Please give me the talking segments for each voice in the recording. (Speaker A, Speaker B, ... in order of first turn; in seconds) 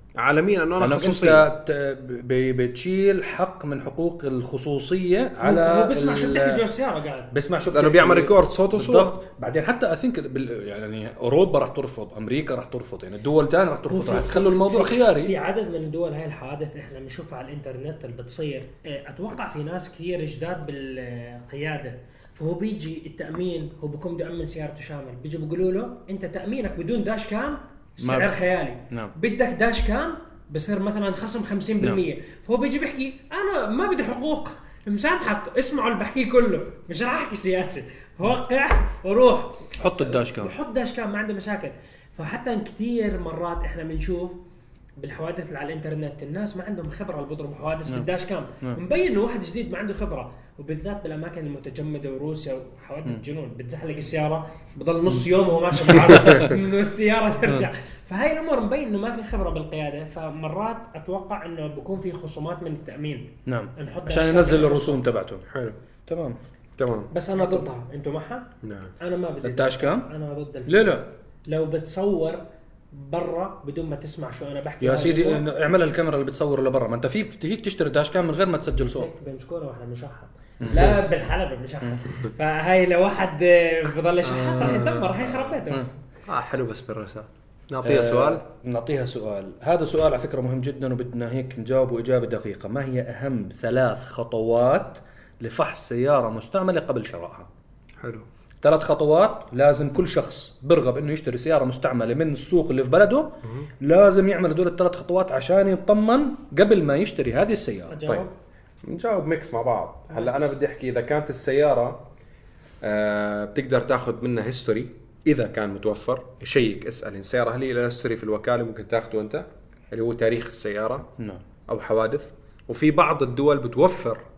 Speaker A: 0.2-1.5, 7.7-9.2, 65.5-65.8, 66.8-67.1, 68.6-68.9, 84.2-85.5, 86.3-88.4, 98.0-98.3, 103.4-103.7, 108.8-112.0, 112.8-121.1, 121.7-124.2
Speaker B: 0.8-6.7, 7.3-15.3, 28.0-28.4, 39.8-40.6, 55.9-56.5, 63.5-65.4, 66.1-66.4, 67.4-67.7, 69.4-70.1, 70.7-71.1, 74.8-79.1, 87.8-97.5, 98.6-108.3, 121.2-121.4
Speaker C: 5.4-7.3, 13.9-44.4, 45.0-65.0, 67.1-68.5, 69.0-72.4, 72.9-75.5, 78.8-85.9, 107.9-108.3